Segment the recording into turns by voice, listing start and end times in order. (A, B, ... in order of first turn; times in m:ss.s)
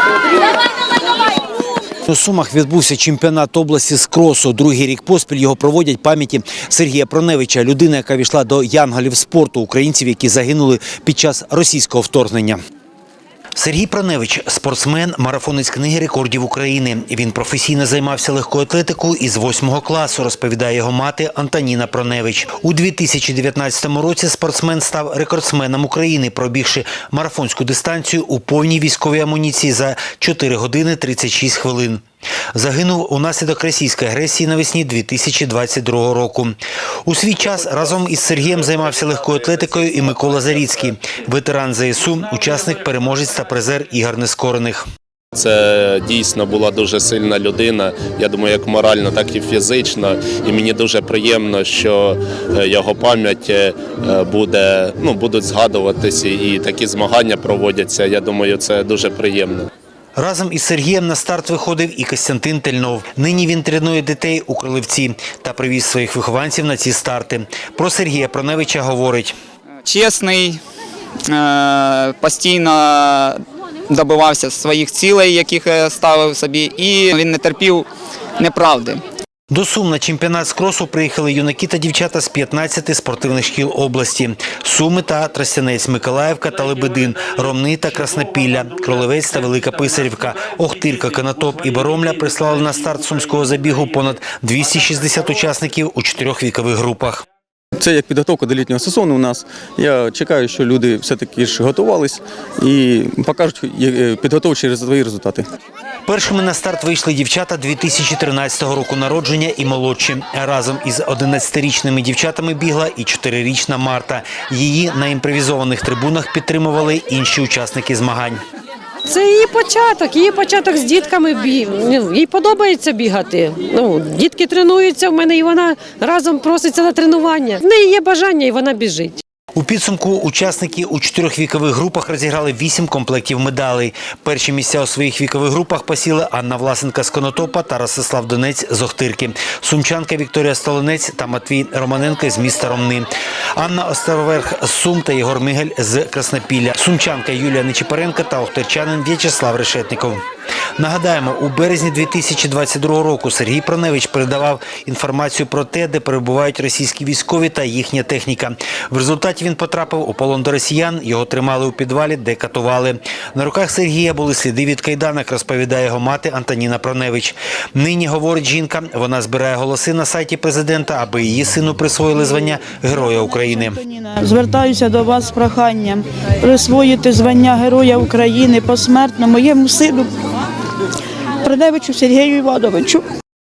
0:02.0-0:12.6 A
0:13.6-0:32.0 A
0:32.5-0:44.8 A
0:45.3-0:59.7 B
1:00.2-1:09.3 A
1:09.8-1:10.6 C
1:11.3-1:17.9 C
1:18.4-1:19.0 C
1:19.5-1:37.2 A
1:37.8-1:45.5 D
1:46.0-1:58.4 A
1:59.1-2:09.2 E
2:09.6-2:30.2 A
2:30.8-2:53.8 A
2:53.3-3:00.1 F
3:01.4-3:03.0 F